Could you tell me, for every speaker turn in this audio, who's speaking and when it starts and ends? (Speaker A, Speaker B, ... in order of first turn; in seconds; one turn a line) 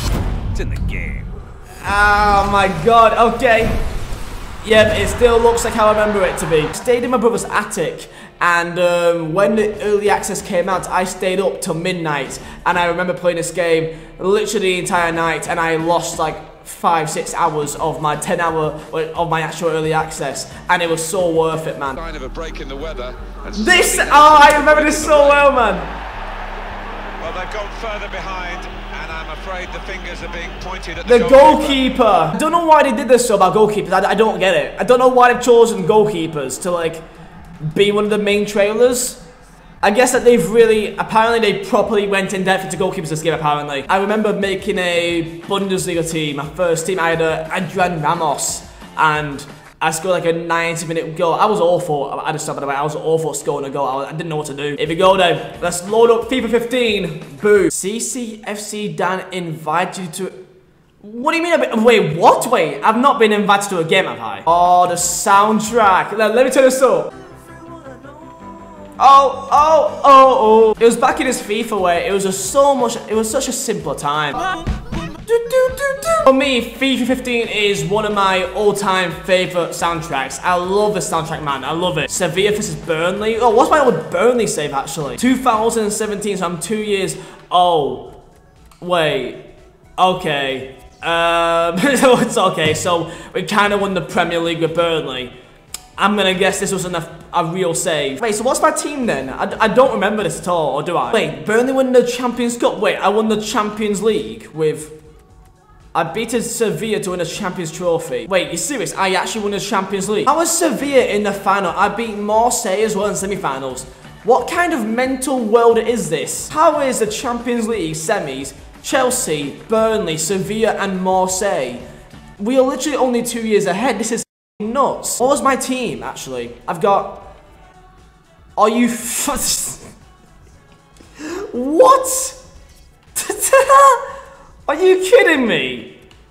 Speaker A: 0.6-1.3
Speaker B: 1.8-3.8
Speaker B: 4.6-22.0
Speaker A: 21.9-25.5
Speaker B: 23.6-25.9
Speaker A: 27.2-31.8
Speaker B: 31.1-37.0
Speaker B: 37.6-39.2
Speaker B: 39.8-60.4
Speaker B: 61.0-67.1
Speaker B: 69.0-74.6
Speaker B: 75.1-88.1
Speaker B: 88.8-89.4
Speaker B: 90.0-95.3
Speaker B: 96.0-105.0
Speaker B: 105.9-121.8
Speaker B: 122.4-127.2
Speaker B: 128.6-129.9
Speaker B: 131.2-132.4
Speaker B: 133.1-134.1
Speaker B: 134.7-135.9